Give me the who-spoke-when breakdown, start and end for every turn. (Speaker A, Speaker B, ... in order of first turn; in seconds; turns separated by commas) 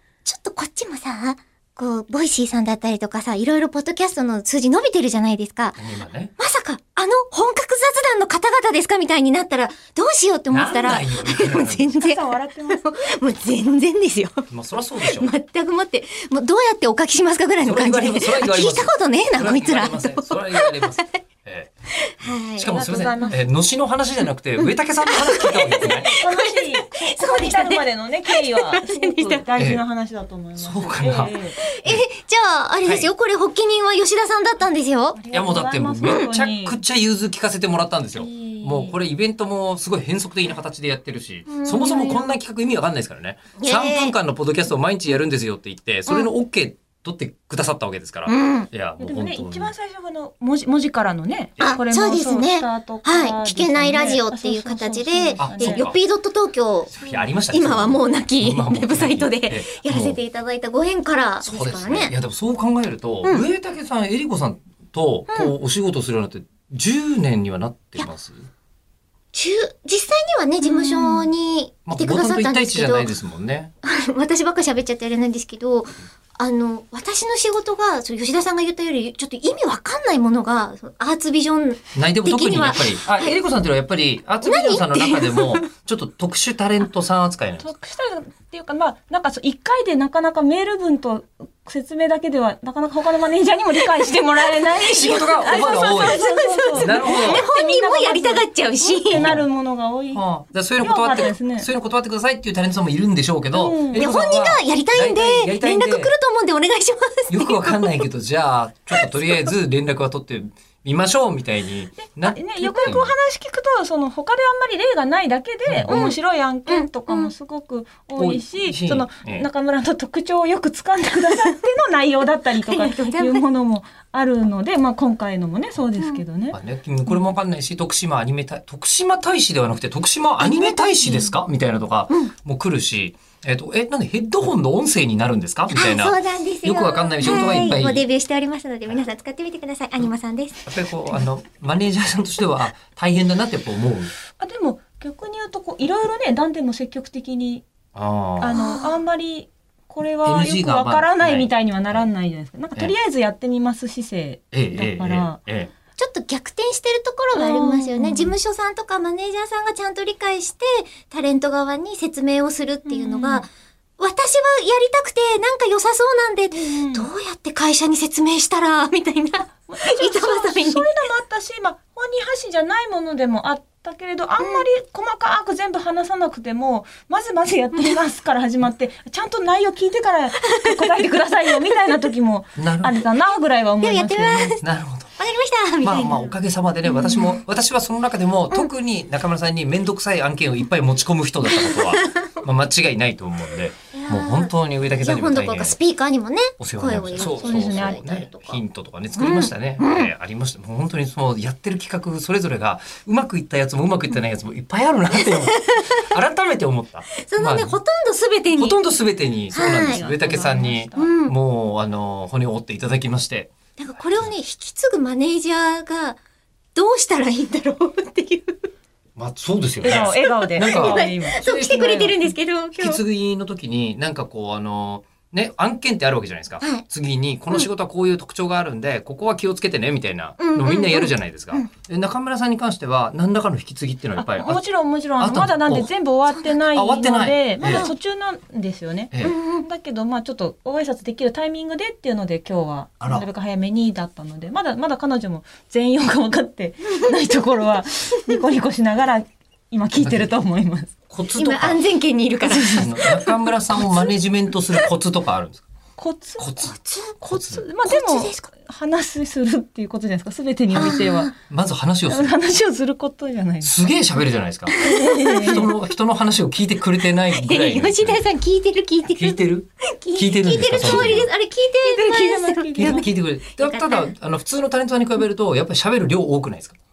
Speaker A: 0.2-5.8, Speaker B: 5.8-6.3, Speaker A: 6.4-14.5, Speaker B: 10.5-11.9, Speaker C: 12.0-12.8, Speaker B: 14.5-15.3, Speaker A: 15.0-21.1, Speaker B: 17.6-21.7, Speaker A: 22.0-22.7, Speaker B: 22.2-26.1, Speaker C: 22.7-23.4, Speaker A: 24.6-29.4, Speaker C: 25.7-31.6, Speaker B: 29.6-29.8, Speaker B: 30.6-32.1, Speaker A: 31.6-35.2, Speaker B: 32.8-33.1, Speaker C: 35.1-36.8, Speaker B: 35.3-49.7, Speaker A: 36.0-36.3, Speaker C: 38.1-39.0, Speaker A: 41.5-42.3, Speaker A: 43.6-44.1, Speaker A: 48.3-48.7, Speaker C: 49.0-55.9, Speaker B: 51.6-51.8, Speaker A: 51.6-56.9, Speaker B: 55.4-56.0, Speaker B: 56.9-60.2, Speaker A: 57.5-62.1, Speaker B: 61.4-68.5, Speaker A: 65.3-65.5, Speaker A: 69.3-73.1, Speaker C: 70.6-71.3, Speaker B: 71.8-73.7, Speaker A: 73.8-83.4, Speaker B: 81.9-87.7, Speaker A: 84.4-85.7, Speaker C: 87.6-100.2, Speaker B: 94.8-97.5, Speaker A: 95.1-99.3, Speaker B: 99.1-99.5, Speaker B: 100.1-106.1, Speaker C: 100.8-101.7, Speaker C: 103.5-104.1, Speaker A: 104.0-108.0, Speaker B: 107.3-113.1, Speaker A: 108.9-109.5, Speaker C: 112.1-127.3, Speaker B: 115.7-116.1, Speaker A: 115.9-117.3, Speaker B: 118.2-119.5, Speaker A: 121.3-121.6, Speaker A: 122.6-123.4, Speaker B: 126.5-138.1, Speaker A: 130.4-131.4, Speaker A: 135.7-140.7, Speaker C: 137.3-137.7, Speaker B: 140.7-144.1, Speaker C: 144.4-147.6, Speaker B: 147.9-148.6, Speaker C: 148.4-155.4, Speaker A: 148.5-148.9, Speaker B: 150.2-152.1, Speaker B: 154.5-155.7, Speaker A: 156.0-170.9, Speaker C: 157.3-158.3, Speaker C: 162.9-163.5, Speaker C: 166.6-167.1, Speaker C: 169.6-184.6, Speaker A: 177.7-178.0, Speaker A: 180.5-180.9, Speaker B: 182.6-183.1, Speaker A: 183.8-184.7, Speaker B: 184.6-185.1, Speaker A: 185.2-187.4, Speaker B: 185.8-195.8, Speaker A: 191.4-192.4, Speaker A: 193.9-198.6, Speaker B: 196.6-207.8, Speaker C: 197.2-198.1, Speaker A: 199.2-200.1, Speaker A: 205.4-205.8, Speaker A: 207.2-208.8, Speaker B: 208.6-213.5, Speaker A: 209.5-210.0, Speaker C: 209.5-211.2, Speaker A: 210.9-211.3, Speaker A: 213.8-216.2, Speaker A: 216.8-218.7, Speaker B: 219.2-221.0, Speaker C: 219.8-222.3, Speaker A: 220.2-223.0, Speaker B: 222.8-234.6, Speaker A: 230.4-231.7, Speaker C: 234.2-250.9, Speaker B: 235.2-235.9, Speaker A: 236.3-236.6, Speaker B: 236.7-237.9, Speaker A: 237.6-237.9, Speaker A: 239.2-239.6, Speaker B: 243.0-243.2, Speaker B: 250.0-250.4, Speaker B: 251.1-251.8, Speaker A: 251.3-253.3, Speaker C: 252.4-253.2, Speaker B: 252.7-255.6, Speaker C: 256.0-261.3, Speaker B: 256.4-257.6, Speaker A: 257.9-258.3, Speaker A: 260.7-261.3, Speaker B: 261.5-262.3, Speaker C: 262.1-263.8, Speaker B: 263.6-268.2, Speaker A: 264.7-265.5, Speaker C: 264.8-265.7, Speaker A: 267.3-274.1, Speaker B: 269.1-271.3, Speaker C: 270.8-271.2, Speaker C: 271.8-273.1, Speaker B: 272.8-276.8